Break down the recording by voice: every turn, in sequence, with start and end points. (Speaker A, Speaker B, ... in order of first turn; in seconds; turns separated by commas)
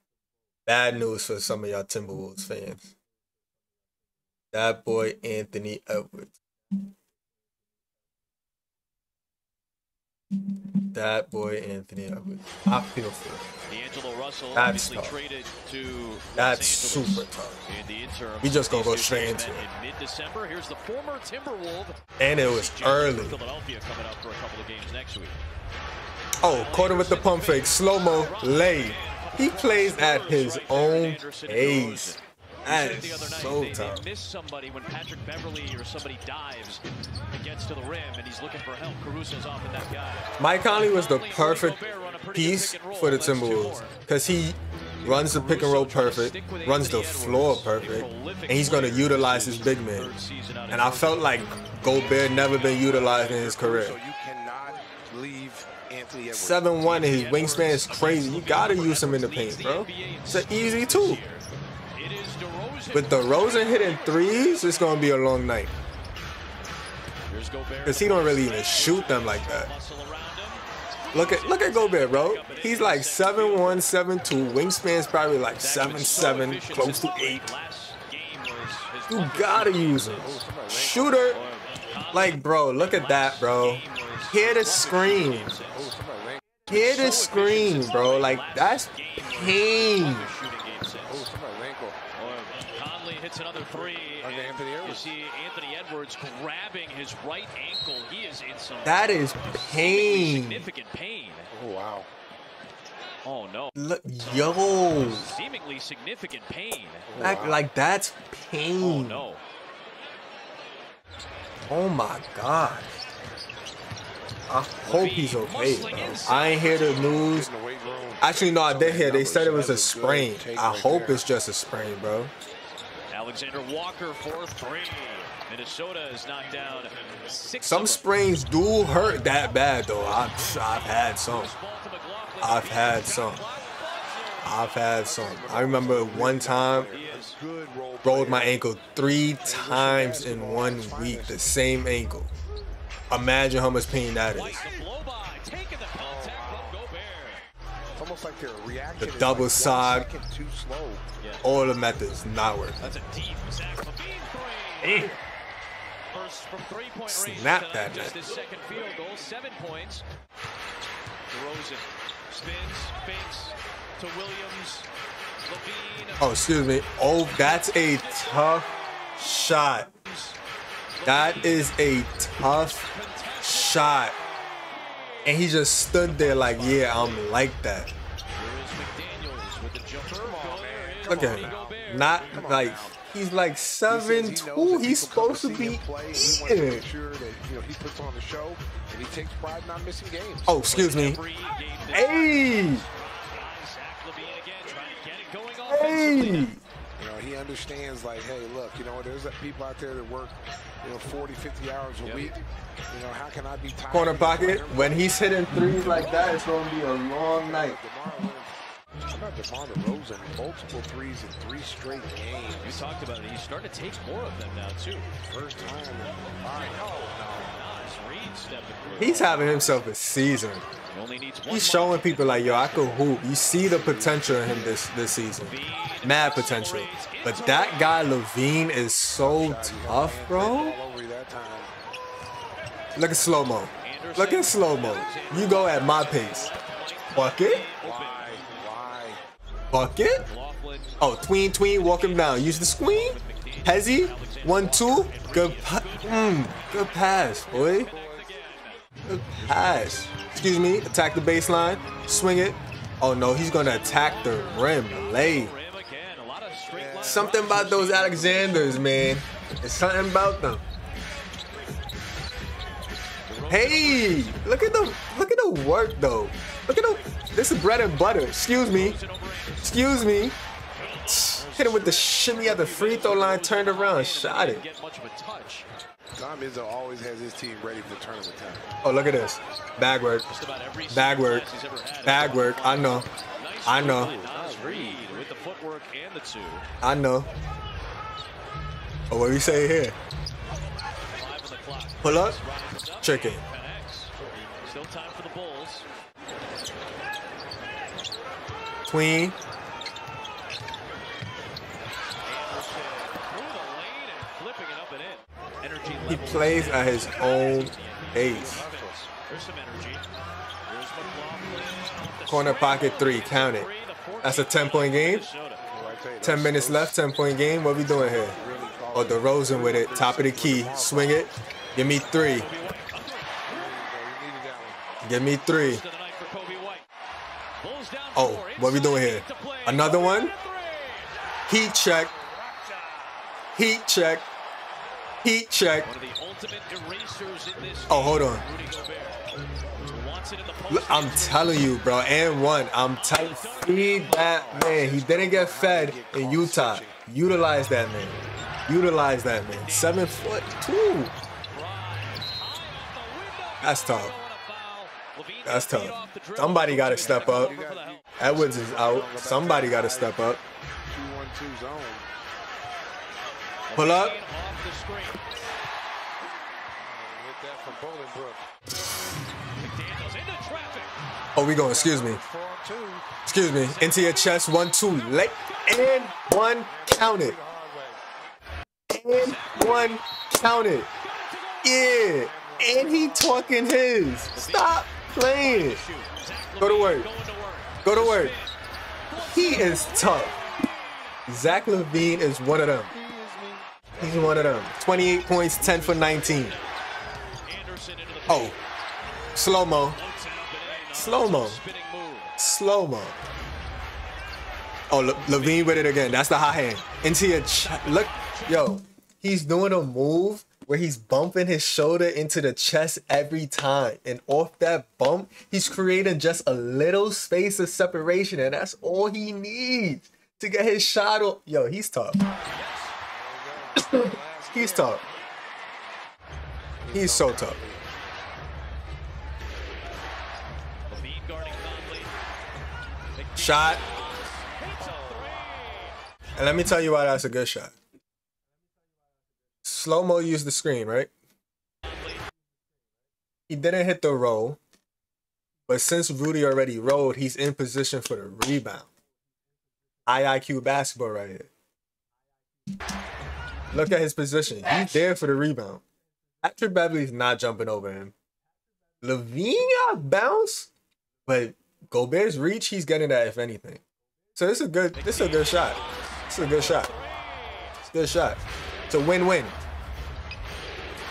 Speaker A: 0.7-2.9, Speaker A: 4.5-6.3, Speaker A: 10.9-13.4, Speaker B: 13.7-25.4, Speaker A: 14.5-15.2, Speaker A: 16.4-17.6, Speaker A: 18.4-19.6, Speaker A: 22.2-23.4, Speaker A: 26.4-34.0, Speaker B: 26.4-44.0, Speaker A: 40.4-41.8, Speaker A: 42.3-50.1, Speaker B: 45.0-51.4, Speaker A: 50.7-54.0, Speaker C: 52.9-56.7, Speaker A: 56.3-61.2, Speaker B: 56.8-65.1, Speaker A: 62.9-65.7, Speaker B: 67.3-73.9, Speaker A: 67.8-69.7, Speaker A: 71.1-77.5, Speaker B: 75.6-80.4, Speaker A: 79.1-81.4, Speaker C: 80.2-81.1, Speaker B: 81.2-86.0, Speaker A: 82.1-85.6, Speaker C: 85.5-86.6, Speaker A: 86.7-90.3, Speaker B: 86.7-91.2, Speaker C: 91.1-92.0, Speaker B: 92.2-101.5, Speaker C: 94.2-95.1, Speaker A: 98.8-100.7, Speaker C: 101.5-102.1, Speaker B: 103.2-103.7, Speaker A: 103.7-105.3, Speaker B: 104.9-107.2, Speaker C: 107.1-107.6, Speaker A: 107.2-109.2, Speaker B: 108.8-109.4, Speaker A: 111.7-112.9, Speaker A: 114.5-117.5, Speaker B: 114.8-117.2, Speaker C: 117.0-121.3, Speaker A: 118.2-122.3, Speaker B: 123.1-128.1, Speaker A: 127.6-131.5, Speaker B: 129.9-134.6, Speaker A: 132.4-133.4, Speaker A: 134.4-136.9, Speaker C: 135.0-138.6, Speaker B: 136.9-137.4, Speaker A: 138.0-142.3, Speaker C: 139.4-141.5, Speaker A: 143.1-144.6, Speaker B: 144.3-147.4, Speaker C: 144.6-144.8, Speaker C: 146.0-146.8, Speaker C: 147.9-151.0, Speaker A: 149.0-150.1, Speaker B: 151.2-151.5, Speaker A: 151.4-152.8, Speaker B: 152.8-155.2, Speaker A: 154.8-155.1, Speaker B: 156.1-160.0, Speaker A: 157.1-158.2, Speaker B: 161.3-164.9, Speaker B: 165.4-166.3, Speaker A: 166.2-169.9, Speaker B: 170.0-170.4, Speaker B: 171.0-171.9, Speaker A: 171.0-172.9, Speaker B: 172.6-174.1, Speaker A: 173.4-174.2, Speaker A: 175.2-177.9, Speaker B: 176.0-177.3, Speaker B: 178.3-182.5, Speaker C: 180.0-182.9, Speaker A: 181.1-186.8, Speaker C: 183.9-190.6, Speaker A: 190.5-191.2, Speaker B: 190.6-196.5, Speaker A: 191.9-192.8, Speaker A: 195.7-196.6, Speaker C: 197.0-205.1, Speaker B: 202.0-202.4, Speaker A: 203.9-207.8, Speaker B: 205.7-206.9, Speaker C: 207.4-208.5, Speaker C: 209.1-212.8, Speaker B: 212.6-215.1, Speaker C: 215.2-217.5, Speaker B: 216.4-216.9, Speaker B: 217.5-219.7, Speaker A: 219.0-220.7, Speaker B: 220.9-223.0, Speaker A: 221.5-230.8, Speaker C: 223.5-224.8, Speaker B: 225.4-228.0, Speaker C: 229.2-231.7, Speaker A: 232.9-236.5, Speaker B: 233.8-238.4, Speaker A: 237.1-237.7, Speaker C: 237.8-239.2, Speaker A: 239.7-240.2, Speaker B: 240.2-248.8, Speaker A: 241.0-247.9, Speaker C: 247.7-248.3, Speaker A: 249.1-255.5, Speaker B: 253.6-258.8, Speaker C: 256.7-257.5, Speaker A: 257.0-260.6, Speaker B: 263.2-264.4, Speaker A: 263.5-269.0, Speaker B: 268.7-269.8, Speaker A: 269.6-270.4, Speaker B: 270.8-275.6, Speaker A: 271.1-274.6, Speaker C: 276.1-278.7, Speaker A: 278.8-280.2, Speaker B: 280.3-286.6, Speaker A: 280.9-281.4, Speaker A: 282.0-283.1, Speaker A: 283.6-284.1, Speaker C: 283.8-285.4, Speaker A: 286.8-287.3, Speaker A: 289.1-290.0, Speaker B: 291.1-295.9, Speaker A: 292.0-292.4, Speaker A: 293.0-293.4, Speaker A: 298.9-299.4, Speaker B: 302.2-310.0, Speaker A: 306.1-308.6, Speaker C: 308.2-309.1, Speaker B: 310.7-315.6, Speaker A: 312.3-313.7, Speaker A: 314.2-315.3, Speaker C: 315.6-317.0, Speaker A: 316.2-318.4, Speaker C: 317.9-321.3, Speaker A: 318.9-322.5, Speaker B: 322.2-323.8, Speaker C: 323.5-324.8, Speaker A: 325.0-325.8, Speaker B: 325.6-326.8, Speaker B: 327.6-331.1, Speaker A: 328.1-330.3, Speaker A: 331.5-332.1, Speaker C: 332.1-333.2, Speaker A: 333.5-334.3, Speaker A: 335.2-335.9, Speaker B: 335.8-339.2, Speaker A: 337.9-338.4, Speaker B: 339.9-341.7, Speaker A: 340.7-351.1, Speaker B: 343.1-344.7, Speaker C: 344.5-347.0, Speaker B: 349.6-350.2, Speaker B: 351.5-358.1, Speaker A: 353.6-354.1, Speaker A: 355.4-357.5, Speaker C: 356.8-362.1, Speaker A: 358.2-360.4, Speaker B: 363.7-365.2, Speaker A: 363.7-364.2, Speaker C: 366.8-368.4, Speaker B: 369.5-370.9, Speaker A: 371.4-372.2, Speaker C: 371.6-373.1, Speaker A: 373.2-377.4, Speaker B: 373.6-374.4, Speaker B: 374.9-376.2, Speaker C: 376.7-378.0, Speaker A: 378.9-380.9, Speaker B: 379.1-380.0, Speaker B: 381.0-381.9, Speaker A: 381.6-385.8, Speaker C: 382.0-383.5, Speaker B: 384.3-388.5, Speaker A: 386.6-387.1, Speaker A: 387.8-388.3, Speaker B: 389.1-391.2, Speaker A: 389.2-390.3, Speaker A: 391.3-392.9, Speaker C: 392.9-394.7, Speaker A: 394.0-396.6, Speaker C: 395.5-396.5, Speaker B: 396.2-396.8, Speaker B: 397.4-398.6, Speaker A: 398.3-398.6, Speaker A: 399.3-400.0, Speaker B: 399.9-402.3, Speaker A: 400.9-401.6, Speaker A: 402.4-403.1, Speaker A: 404.9-422.2, Speaker B: 405.2-405.8, Speaker B: 407.4-408.7, Speaker B: 422.5-422.9, Speaker C: 423.1-425.0, Speaker A: 423.8-425.0, Speaker C: 426.8-427.8, Speaker A: 426.9-427.6, Speaker B: 430.9-432.1, Speaker B: 433.1-435.9, Speaker A: 433.4-433.8, Speaker A: 436.3-437.7, Speaker A: 439.6-441.1, Speaker B: 441.9-442.2, Speaker A: 443.5-444.6, Speaker A: 445.7-448.9, Speaker A: 450.1-451.5, Speaker A: 453.7-455.8, Speaker A: 456.4-458.1, Speaker A: 459.0-460.7, Speaker A: 461.2-463.8, Speaker A: 464.4-465.8, Speaker B: 464.9-467.8, Speaker A: 466.3-466.9, Speaker A: 467.8-469.6